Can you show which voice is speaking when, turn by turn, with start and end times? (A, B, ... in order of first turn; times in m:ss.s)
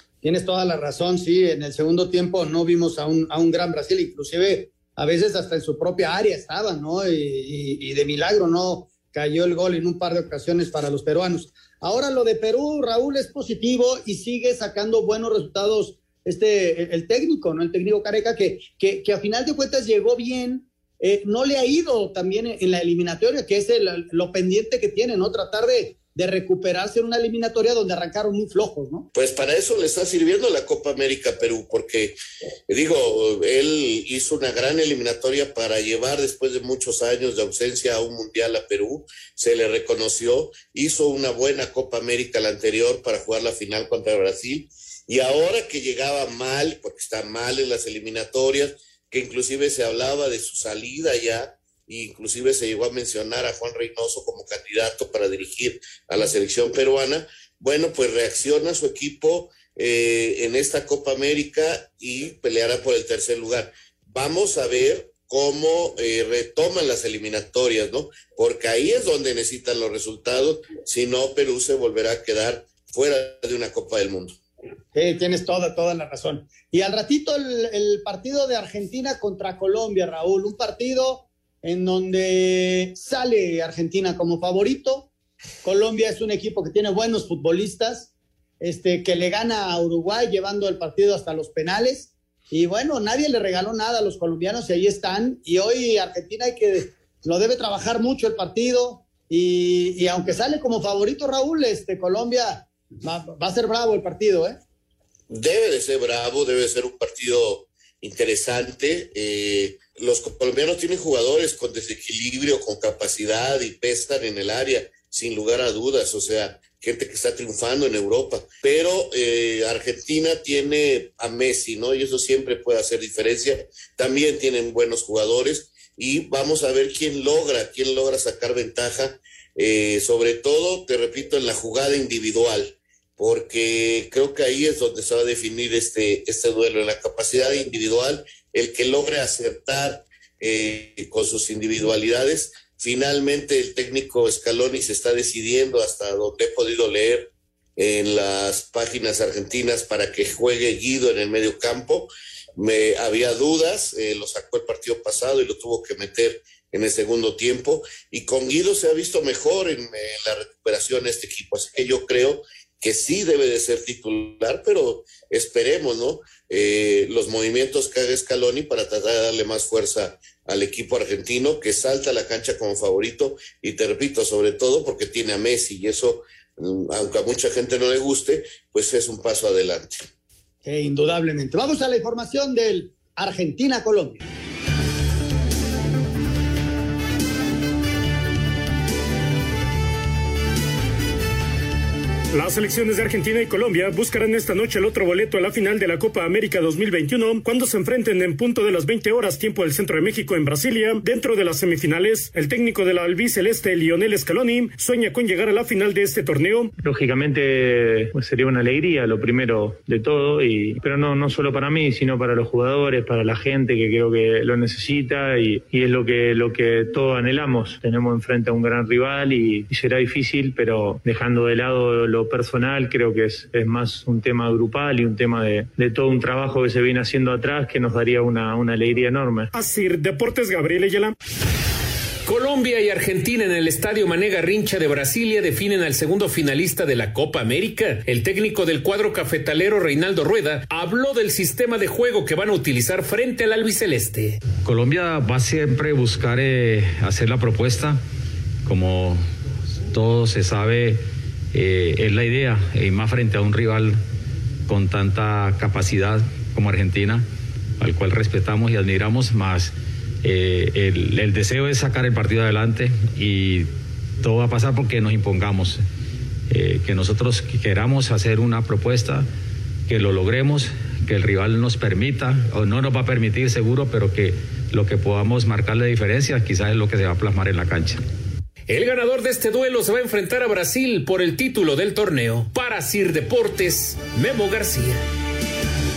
0:00.2-0:29.1 A
0:29.1-0:32.2 B
0:32.7-1:14.4 B
1:14.9-1:25.1 A
1:25.6-1:44.6 A
1:45.3-3:00.0 B
3:00.6-3:04.2 A
3:12.3-3:26.7 C
3:26.8-3:49.5 D
3:49.5-3:51.1 C
3:52.2-4:04.4 E
4:04.6-4:08.0 F
4:08.6-4:09.2 F
4:09.9-4:14.0 F
4:14.7-4:17.3 F
4:17.8-4:23.7 F
4:24.2-4:25.8 F
4:26.5-4:29.3 F
4:29.9-4:38.0 F
4:38.7-4:45.0 E